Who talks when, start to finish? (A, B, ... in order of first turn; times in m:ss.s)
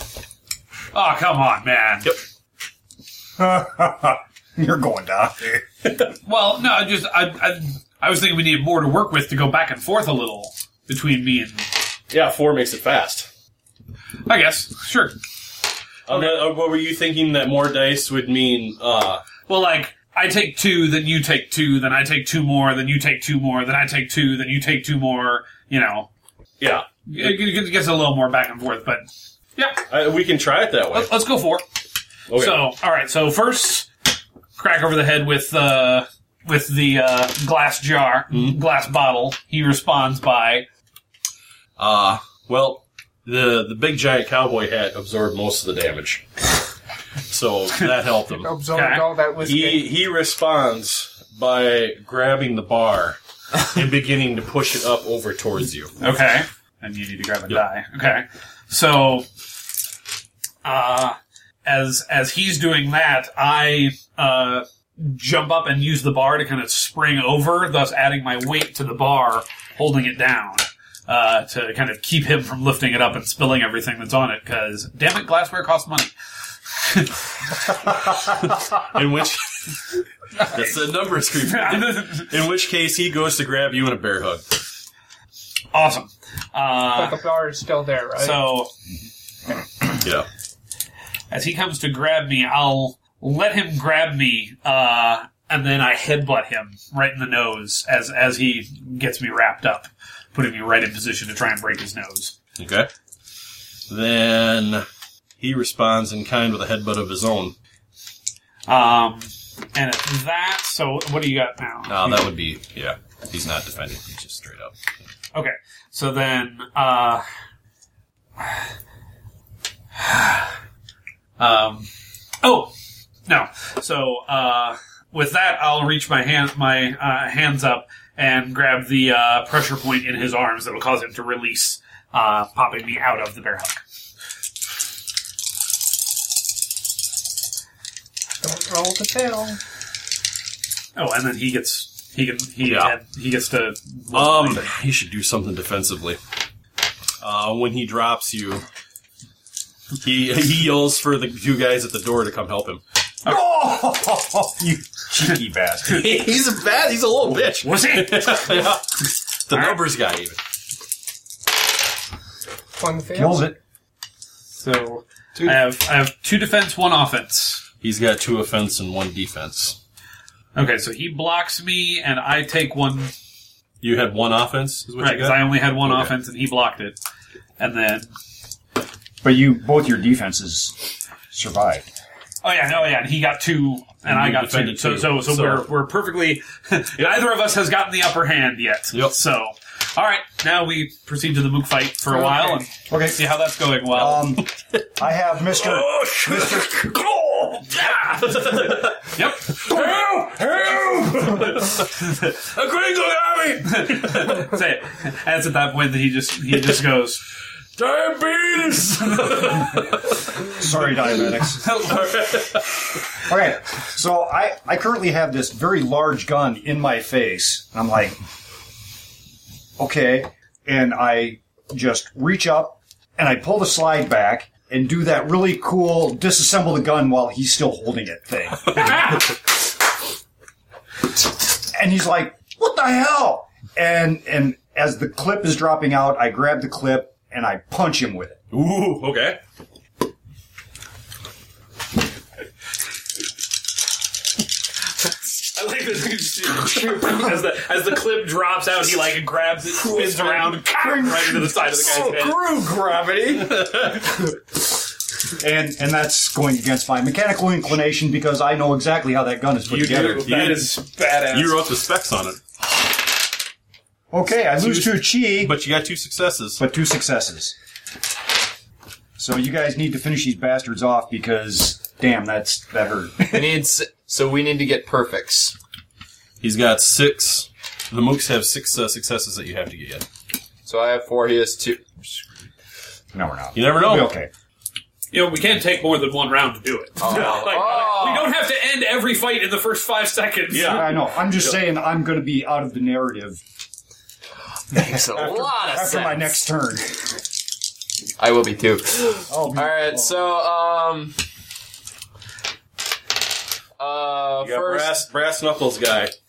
0:00.9-0:02.1 A
0:03.4-0:05.6 B
0:06.2-0:11.7 A
0:12.1-0:13.3 C
0:14.2-0:15.2 A
0:16.1-0:19.3 C
0:16.1-0:16.4 A
0:19.4-0:26.1 A
0:26.6-0:27.4 C
0:27.1-0:29.0 A
0:29.6-0:29.8 A
0:29.9-0:31.1 C
0:30.9-0:31.6 A
0:32.3-0:32.6 C
0:32.4-0:33.9 A
0:34.6-0:40.7 A
0:38.3-0:38.6 C
0:41.8-0:46.2 C
0:47.3-0:48.5 C
0:48.4-0:49.9 D
0:48.7-0:49.1 A
0:49.4-0:55.9 C
0:56.0-0:59.2 A
1:00.6-1:16.1 A
1:16.8-1:18.1 A
1:18.2-1:19.8 C
1:20.4-1:24.4 C
1:21.4-1:22.3 A
1:25.7-1:27.2 A
1:26.9-1:28.4 D
1:28.2-1:28.7 A
1:31.3-1:42.3 A
1:42.6-1:42.9 C
1:43.9-1:44.8 C
1:45.4-1:47.5 C
1:48.7-1:52.2 A
1:51.8-1:54.7 C
1:55.3-1:57.2 A
2:00.0-2:00.5 A
2:01.4-2:01.9 A
2:02.4-2:02.7 A
2:03.3-2:13.8 A
2:18.4-2:19.6 D
2:21.0-2:24.7 A
2:22.6-2:22.9 C
2:24.1-2:26.2 C
2:27.2-2:28.6 C
2:30.0-2:32.8 C
2:33.2-2:36.1 B
2:35.9-2:40.4 C
2:37.6-2:38.8 A
2:39.5-2:39.8 A
2:42.8-2:43.4 D
2:43.1-2:43.6 B
2:44.6-2:47.6 A
2:47.8-2:49.8 C
2:50.5-2:53.1 A
2:53.8-2:56.1 C
2:55.0-2:57.0 A
2:57.6-2:58.1 A
2:59.2-3:00.8 B
3:01.3-3:01.8 B
3:02.4-3:14.4 A
3:04.0-3:05.6 C
3:12.1-3:12.6 D
3:12.9-3:13.2 B
3:13.9-3:16.9 B
3:15.5-3:24.4 C
3:17.8-3:18.2 A
3:19.1-3:19.8 A
3:23.6-3:27.2 A
3:27.8-3:30.2 C
3:29.1-3:29.8 A
3:30.5-3:31.8 B
3:31.6-3:32.4 A
3:31.7-3:32.8 C
3:33.2-3:38.2 B
3:39.8-3:49.2 B
3:51.7-3:58.4 B
3:58.5-3:59.4 C
4:05.4-4:12.4 A
4:09.9-4:10.2 E
4:10.8-4:11.5 B
4:11.7-4:13.6 E
4:13.4-4:14.2 C
4:15.4-4:20.5 B
4:19.7-4:21.6 A
4:19.8-4:22.4 C
4:24.1-4:25.6 B
4:24.5-4:26.6 C
4:26.6-4:27.5 B
4:29.2-4:33.5 B
4:33.3-4:35.6 E
4:36.4-4:40.0 C
4:40.6-4:42.2 E
4:43.1-4:44.3 B
4:43.5-4:44.1 C
4:45.1-4:50.9 A
4:47.0-4:48.3 E
4:50.5-4:51.6 C
4:50.6-4:53.4 B
4:54.7-4:56.4 E
4:54.7-4:57.1 B
4:58.2-5:01.2 E
4:59.3-5:00.2 B
5:03.8-5:05.0 E
5:04.4-5:06.1 C